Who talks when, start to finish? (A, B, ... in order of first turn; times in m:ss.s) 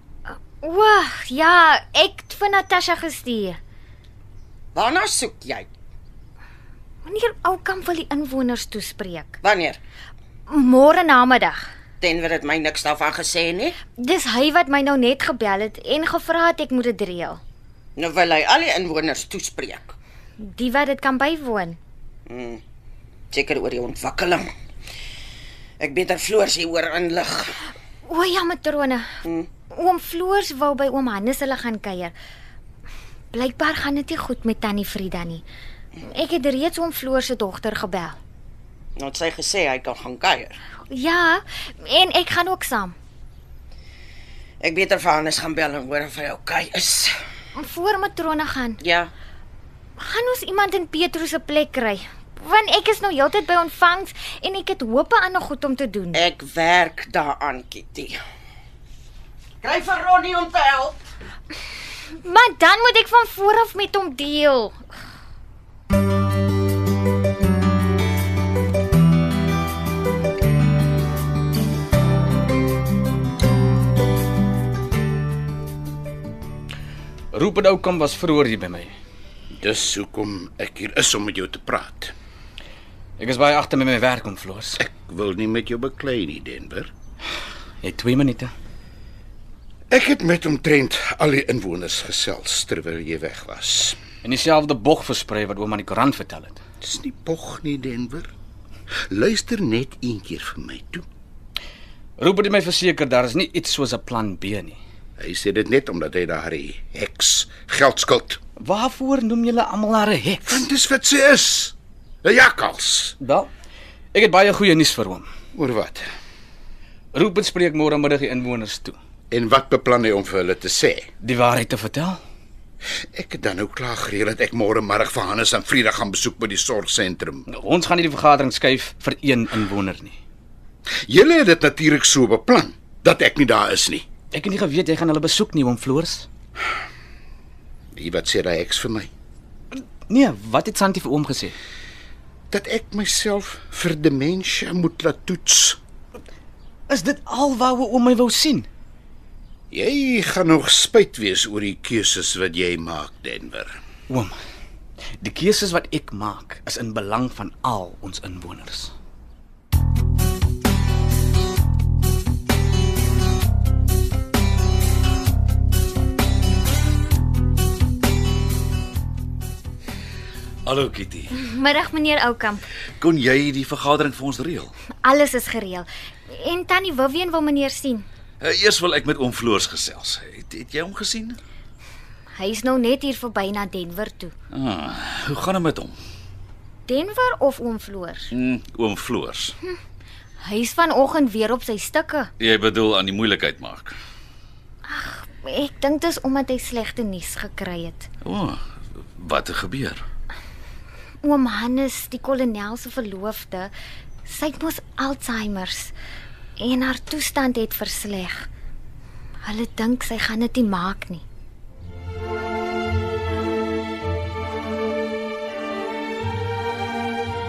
0:00.3-0:03.6 A
0:04.7-0:05.7 B
0:07.0-0:09.4 A
0:09.4-0:09.8 B
0:10.5-0:11.7 A
0:12.0-0:13.8 B
0:13.9-0:17.4 A
0:18.0-0:20.0 B
0:20.4-0:21.8 A
0:22.3-0:22.6 B
0:23.3-0:24.4 B
0:25.8-0:27.5 B
0:28.0-0:29.1 A
0:29.7-0:32.1 A
0:33.3-0:35.4 A
0:36.0-0:38.2 A
0:39.0-0:40.6 B
0:40.8-0:42.9 A
0:44.6-0:47.1 B
0:47.6-0:48.8 A
0:48.8-0:49.1 B
0:50.0-0:56.3 A
0:56.1-0:58.2 B
0:59.6-1:01.0 B
1:02.1-1:04.8 A
1:17.3-1:18.9 C
1:19.5-1:22.1 D
1:23.2-1:24.8 C
1:24.8-1:26.9 D
1:27.8-1:28.5 C
1:29.9-1:34.0 D
1:34.2-1:36.6 C
1:36.8-1:38.3 D
1:39.1-1:41.0 D
1:42.2-1:44.8 C
1:45.2-1:48.4 D
1:48.6-1:50.6 C
1:50.5-1:53.1 D
1:53.2-1:53.5 C
1:54.1-1:55.2 C
1:55.5-1:56.1 D
1:57.1-1:59.0 C
1:59.3-2:01.1 D
2:01.2-2:02.2 C
2:03.1-2:07.5 D
2:07.5-2:10.2 C
2:11.1-2:14.0 D
2:14.3-2:16.3 C
2:17.9-2:19.1 D
2:19.7-2:21.5 C
2:22.5-2:25.8 D
2:26.9-2:28.7 C
2:29.7-2:33.7 D
2:35.2-2:38.9 C
2:50.6-2:51.4 E
2:51.3-2:52.7 A
2:53.0-2:54.7 E
2:55.0-2:58.0 A
2:58.4-3:01.4 E
3:02.3-3:04.3 A
3:04.5-3:05.9 E
3:06.9-3:08.3 A
3:08.3-3:09.5 E
3:10.4-3:12.3 A
3:12.4-3:13.9 E
3:14.8-3:18.1 A
3:18.2-3:18.6 E
3:19.2-3:20.0 E
3:21.2-3:23.7 A
3:24.2-3:25.9 A
3:26.6-3:28.5 A
3:29.4-3:31.2 A